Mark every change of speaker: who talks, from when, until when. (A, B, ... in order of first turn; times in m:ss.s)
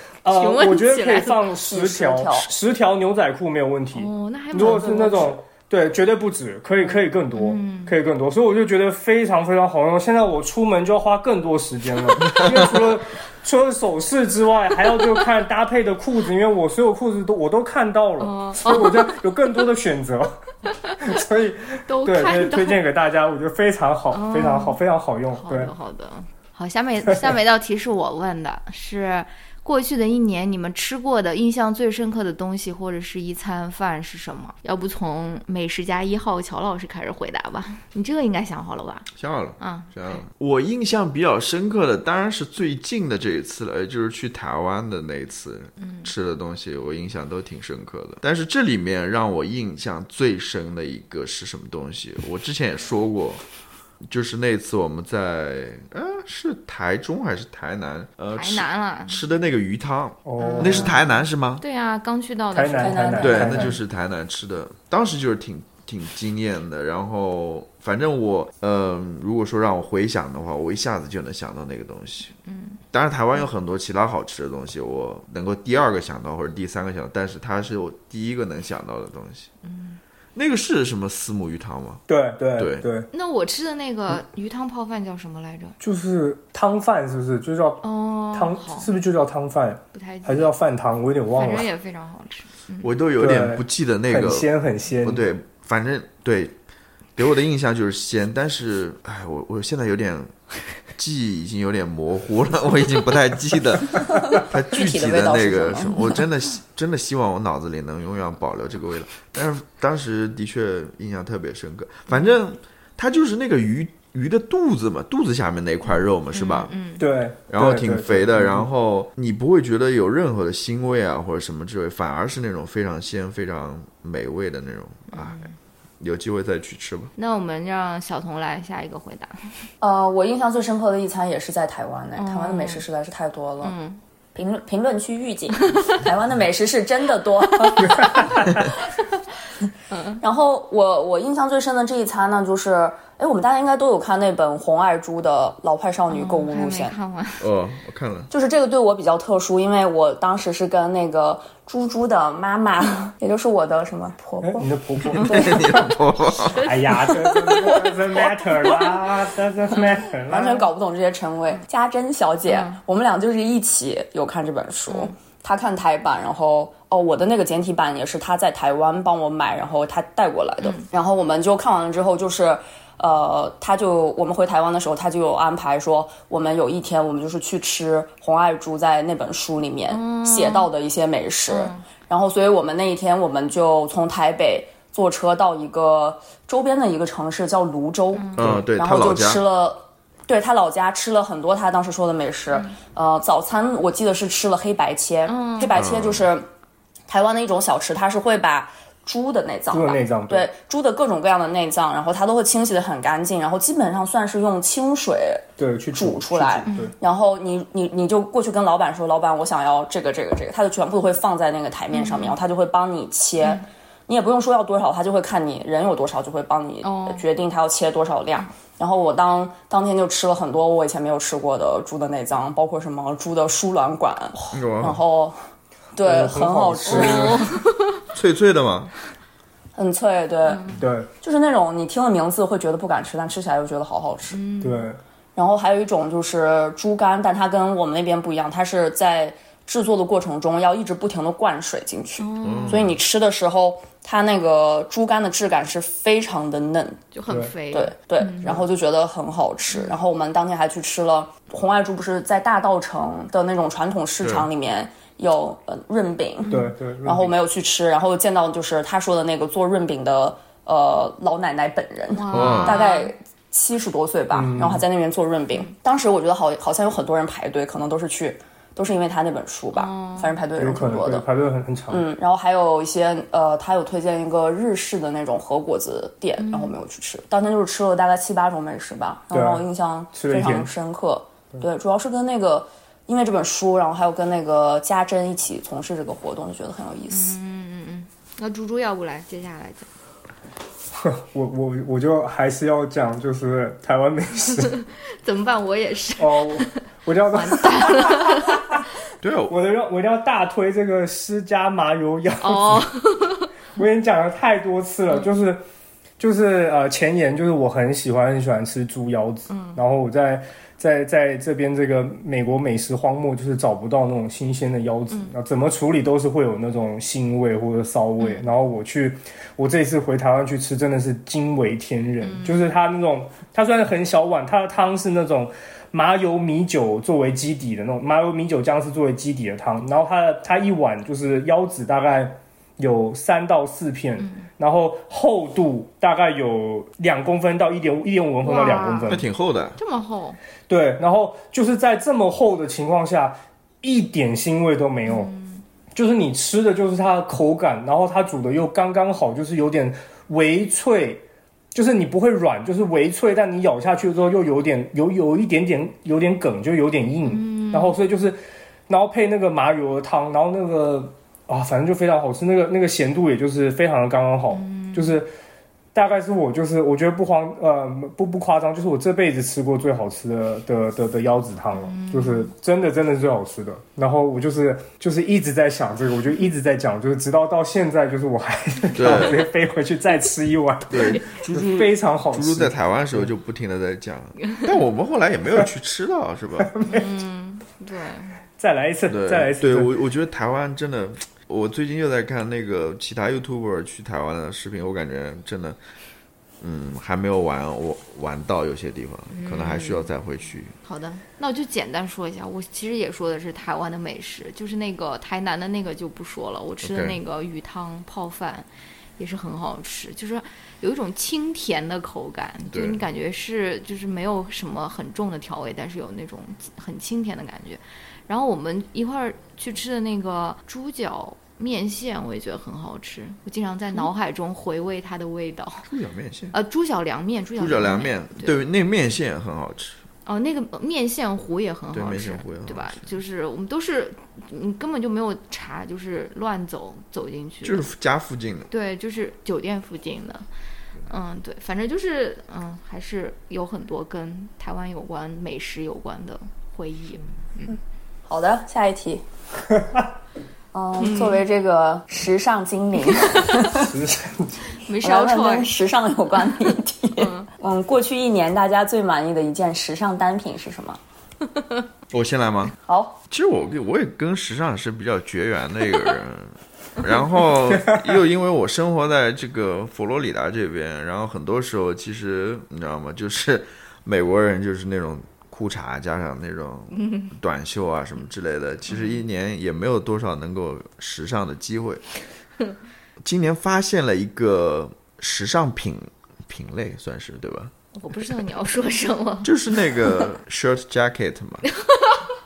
0:00.2-0:20.4 A
0:00.3-0:01.4 B
0:01.6-0:02.5 C
0:03.9-0:05.4 B
0:06.8-0:08.0 B
0:18.2-0:19.2 B
0:20.6-0:21.1 B
0:21.0-0:25.7 A
0:21.9-0:22.8 B
0:24.1-0:24.8 B
0:25.3-0:39.1 B
0:39.2-0:53.4 D
0:39.6-0:40.2 B
0:45.8-0:46.1 B
0:54.0-1:01.6 D
0:58.3-0:59.2 B
1:00.2-1:01.0 A
1:00.4-1:03.6 B
1:02.5-1:03.8 A
1:02.8-1:03.7 C
1:03.2-1:12.3 D
1:12.4-1:12.8 B
1:12.9-1:19.5 D
1:19.6-1:20.0 B
1:20.3-1:22.0 D
1:22.1-1:23.1 A
1:22.6-1:22.8 D
1:23.1-1:25.8 B
1:25.8-1:31.7 A
1:27.8-1:28.9 B
1:29.9-1:30.5 B
1:31.3-1:32.9 B
1:32.8-1:34.5 D
1:33.2-1:35.2 A
1:35.0-1:36.6 D
1:37.2-1:40.3 D
1:40.9-1:56.7 D
1:44.0-1:46.2 C
1:56.3-1:57.1 B
1:57.0-1:58.7 A
1:57.5-2:05.4 D
2:05.1-2:05.5 B
2:06.0-2:07.1 D
2:07.2-2:09.3 B
2:09.8-2:13.7 C
2:12.2-2:12.8 B
2:13.6-2:14.0 B
2:14.3-2:18.7 C
2:17.6-2:18.4 B
2:18.0-2:18.3 A
2:19.9-2:20.2 B
2:20.2-2:27.0 C
2:26.1-2:27.5 B
2:27.4-2:28.3 D
2:28.3-2:34.7 C
2:34.4-2:35.9 A
2:35.2-2:36.6 D
2:35.2-2:35.9 C
2:36.4-2:39.1 B
2:36.6-2:40.7 A
2:40.3-3:16.5 C
2:42.5-2:42.8 B
2:44.9-2:45.1 B
2:50.6-2:50.9 B
2:59.9-3:00.7 B
3:01.5-3:01.8 B
3:08.1-3:08.5 B
3:08.4-3:09.4 D
3:12.5-3:12.8 B
3:15.2-3:15.8 B
3:15.7-3:16.3 D
3:17.1-3:45.4 C
3:19.7-3:20.5 A
3:25.6-3:26.9 A
3:26.7-3:26.9 B
3:31.9-3:32.4 B
3:33.4-3:33.6 B
3:36.8-3:37.2 B
3:44.5-3:45.0 D
3:45.9-3:47.4 C
3:46.0-3:47.4 A
3:46.9-3:48.0 B
3:48.1-3:48.9 D
3:49.8-3:54.4 C
3:50.4-3:50.8 B
3:50.8-3:51.1 A
3:54.3-3:54.9 B
3:54.6-3:55.0 A
3:55.3-4:07.0 C
4:02.2-4:02.9 B
4:02.4-4:03.0 D
4:07.1-4:08.6 B
4:07.7-4:31.2 C
4:09.7-4:10.0 B
4:14.2-4:14.5 D
4:16.4-4:16.7 B
4:16.5-4:17.4 A
4:22.1-4:23.1 B
4:22.3-4:22.8 D
4:24.3-4:24.8 A
4:29.7-4:30.4 B
4:30.6-4:32.0 A
4:31.9-4:47.4 C
4:36.4-4:36.8 B
4:39.3-4:40.7 A
4:47.1-4:49.9 B
4:50.9-4:54.7 A
4:54.6-4:56.8 B
4:56.2-4:58.8 A
4:57.3-4:58.6 B
4:59.2-4:59.5 D
4:59.5-5:02.8 A
5:02.4-5:03.5 B
5:03.8-5:05.6 A
5:06.2-5:39.2 A
5:09.5-5:09.8 B
5:18.2-5:18.5 B
5:22.2-5:22.7 B
5:34.2-5:34.4 B
5:38.4-5:39.2 B
5:39.1-5:39.8 D
5:39.8-5:40.4 B
5:40.7-5:45.3 A
5:45.0-5:45.6 B
5:45.9-6:05.3 A
5:57.3-5:58.0 B
6:04.5-6:05.2 B
6:05.9-6:23.3 A
6:11.7-6:12.5 B
6:18.9-6:19.5 D
6:20.9-6:26.7 D
6:21.0-6:21.2 B
6:26.6-6:27.1 A
6:26.8-6:28.4 B
6:28.6-6:29.9 A
6:29.1-6:35.8 D
6:36.6-6:40.7 D
6:39.3-6:40.1 B
6:40.8-7:05.9 B
6:46.8-6:47.2 D
6:52.7-6:53.0 D
7:05.9-7:06.5 D
7:06.5-7:08.6 B
7:07.6-7:10.0 D
7:10.2-7:17.9 B
7:11.9-7:13.1 D
7:17.6-7:18.7 D
7:18.7-7:20.4 B
7:21.1-7:27.8 B
7:28.3-7:29.2 C
7:30.7-7:33.9 C
7:31.0-7:31.4 B
7:33.7-7:34.6 A
7:34.7-7:35.8 B
7:35.0-7:41.0 C
7:37.2-7:37.5 B
7:42.1-7:42.7 D
7:42.8-7:43.2 C
7:43.3-8:02.0 D
7:47.0-7:47.2 B
7:57.0-7:57.3 B
7:58.9-7:59.2 B
8:03.2-8:07.7 D
8:07.9-8:09.5 B
8:09.4-8:11.6 D
8:11.7-8:12.3 B